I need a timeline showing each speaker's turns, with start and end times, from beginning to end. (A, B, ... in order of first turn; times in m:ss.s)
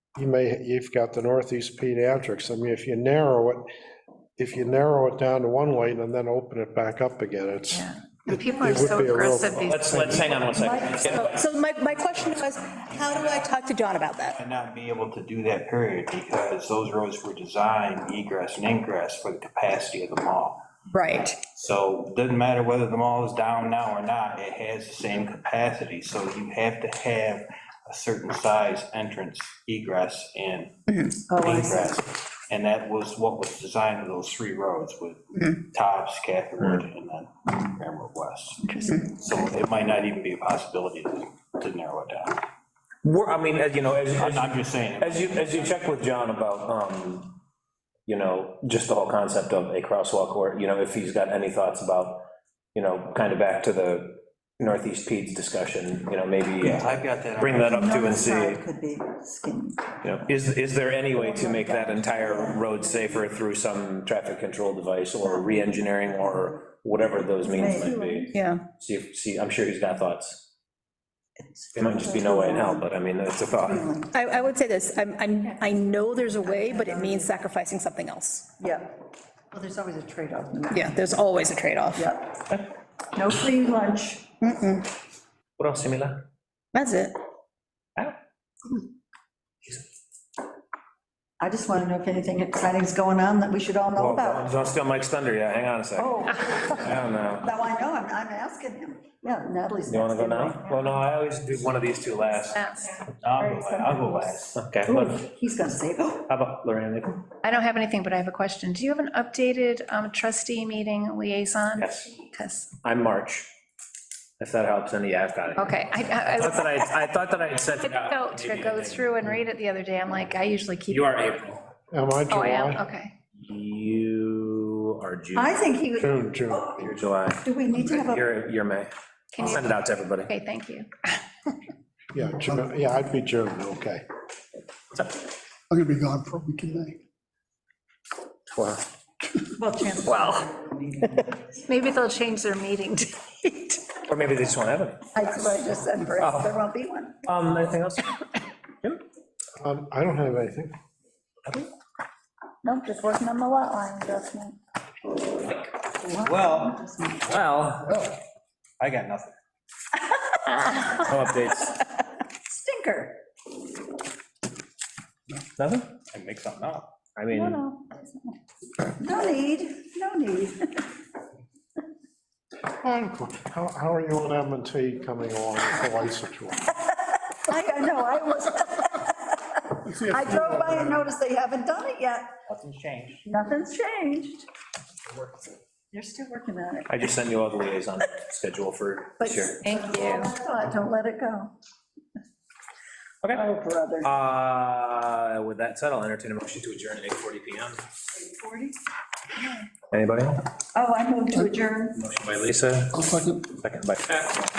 0:00.1-0:03.6 A
0:04.4-0:07.9 A
0:08.2-0:10.3 B
0:08.6-0:10.4 A
0:09.6-0:11.4 C
0:10.5-0:11.4 D
0:11.1-0:14.4 E
0:14.3-0:20.6 F
0:20.9-0:21.4 E
0:21.5-0:30.7 F
0:30.9-0:31.3 E
0:31.3-0:31.9 D
0:31.4-0:42.4 F
0:38.6-0:39.1 D
0:43.0-0:47.4 C
0:44.0-0:45.9 F
0:48.1-0:52.2 C
0:52.7-0:58.6 C
0:56.7-0:57.8 F
0:57.6-1:00.0 D
1:00.0-1:10.5 C
1:01.1-1:03.2 D
1:05.2-1:05.7 D
1:07.4-1:08.4 D
1:08.3-1:08.7 E
1:11.4-1:12.9 D
1:11.8-1:13.9 C
1:13.6-1:14.2 D
1:14.1-1:18.5 E
1:16.4-1:17.3 D
1:18.6-1:18.9 D
1:19.5-1:21.2 D
1:20.7-1:22.0 E
1:21.9-1:22.4 D
1:23.1-1:24.4 D
1:24.4-1:24.8 E
1:25.6-1:26.2 C
1:26.7-1:27.1 E
1:31.4-1:34.5 D
1:34.0-1:37.4 C
1:36.0-1:41.0 D
1:39.9-1:42.6 C
1:42.5-1:43.0 B
1:43.2-1:44.6 F
1:43.4-1:44.3 D
1:44.6-1:45.2 C
1:44.8-1:46.3 D
1:46.3-1:47.2 C
1:47.4-1:52.7 B
1:51.8-1:52.1 C
1:52.8-1:53.5 C
1:54.4-1:59.1 C
1:55.6-1:56.9 B
1:57.7-2:01.1 B
2:00.9-2:01.6 C
2:01.9-2:02.8 A
2:02.3-2:03.1 B
2:03.4-2:05.7 C
2:05.3-2:06.8 D
2:06.0-2:06.8 A
2:06.8-2:10.3 C
2:07.4-2:08.3 D
2:09.3-2:09.7 B
2:10.2-2:10.9 B
2:12.1-2:14.0 A
2:15.7-2:17.0 G
2:18.5-2:18.8 C
2:19.5-2:21.3 D
2:20.1-2:20.4 C
2:21.6-2:23.9 B
2:24.1-2:25.0 C
2:25.1-2:27.2 D
2:26.2-2:26.6 C
2:27.2-2:28.2 C
2:29.6-2:30.7 A
2:32.6-2:34.6 D
2:36.0-2:37.4 D
2:36.2-2:36.7 F
2:37.3-2:37.9 C
2:38.8-2:39.4 F
2:40.5-2:41.0 D
2:41.0-2:41.7 C
2:42.4-2:43.2 D
2:45.6-2:45.9 C
2:46.1-2:46.9 F
2:47.2-2:47.6 C
2:47.3-2:48.3 D
2:48.8-2:50.9 D
2:52.8-2:56.6 A
2:57.1-3:02.3 D
3:00.3-3:00.8 G
3:02.5-3:03.2 C
3:03.2-3:04.4 D
3:05.9-3:06.9 D
3:06.9-3:09.5 C
3:09.2-3:11.5 D
3:09.6-3:10.3 B
3:13.2-3:17.8 C
3:13.3-3:14.1 D
3:18.2-3:18.7 D
3:19.4-3:19.6 D
3:19.9-3:20.4 C
3:20.7-3:22.0 D
3:22.0-3:24.3 C
3:22.9-3:23.5 G